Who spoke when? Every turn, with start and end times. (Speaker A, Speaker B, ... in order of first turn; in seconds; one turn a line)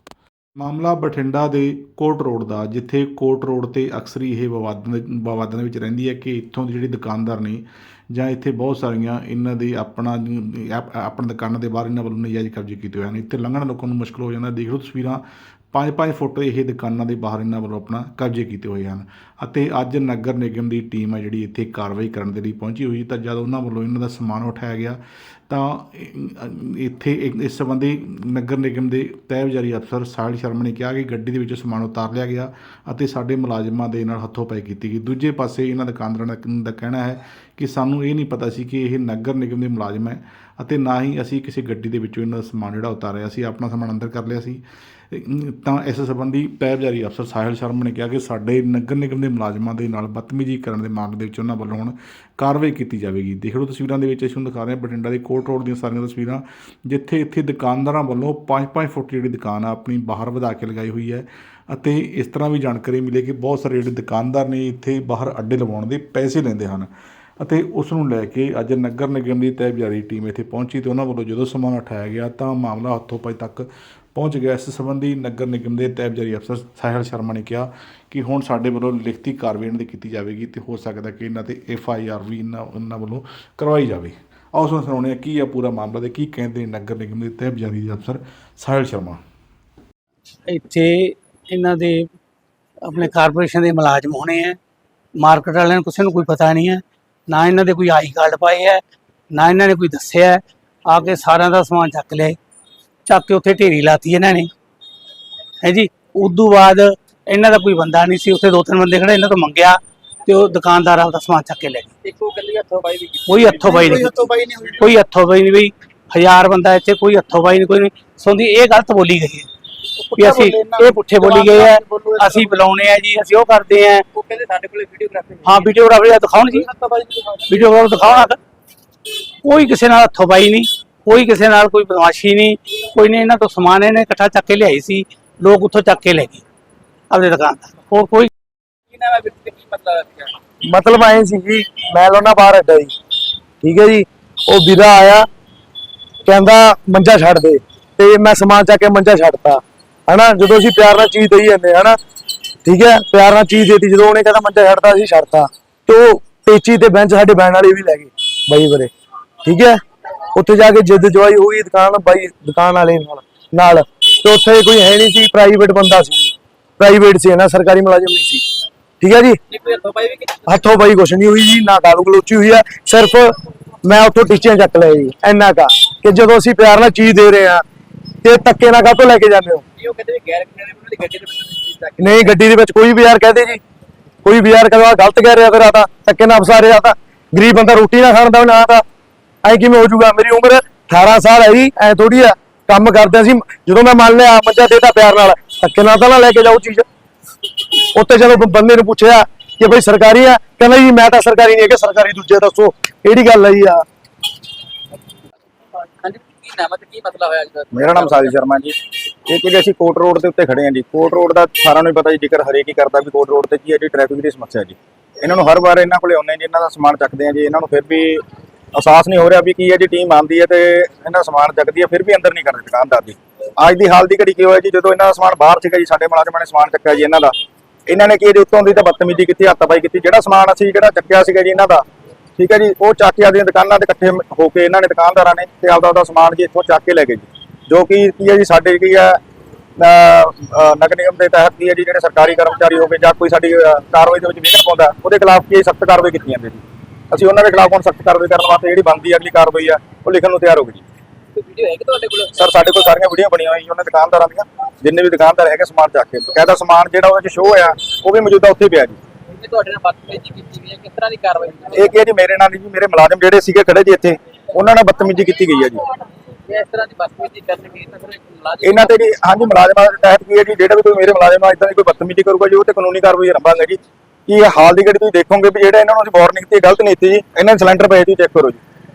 Speaker A: 0.6-15.2
Speaker A: 15.7-89.2
Speaker B: 90.5-92.1
Speaker B: 92.8-94.6
Speaker B: 95.2-98.8
Speaker B: 99.3-102.4
Speaker B: 103.1-104.5
Speaker B: 105.6-111.9
Speaker C: 112.0-113.7
Speaker B: 113.3-119.5
Speaker D: 113.5-114.8
Speaker D: 120.1-122.5
Speaker B: 120.2-124.0
Speaker C: 124.1-125.7
Speaker B: 125.5-126.7
Speaker C: 126.8-127.4
Speaker B: 127.5-128.4
Speaker B: 129.4-136.4
Speaker B: 137.1-138.3
Speaker C: 138.9-140.3
Speaker E: 140.7-142.9
Speaker E: 143.6-145.3
Speaker E: 146.2-152.0
Speaker E: 152.6-158.9
Speaker E: 159.4-159.8
Speaker E: 160.3-168.4
Speaker E: 169.0-169.4
Speaker C: 169.5-170.6
Speaker E: 170.5-177.6
Speaker E: 178.2-179.6
Speaker C: 179.8-182.2
Speaker E: 182.0-183.6
Speaker E: 184.2-188.8
Speaker E: 189.4-196.8
Speaker E: 197.7-203.8
Speaker C: 206.0-208.4
Speaker D: 207.7-208.8
Speaker D: 209.3-218.2
Speaker D: 218.8-227.3
Speaker D: 227.9-231.8
Speaker D: 232.4-239.2
Speaker D: 239.8-250.8
Speaker C: 251.4-252.4
Speaker D: 252.3-259.0
Speaker C: 259.4-262.0
Speaker D: 261.7-265.8
Speaker C: 266.5-269.0
Speaker D: 268.6-278.6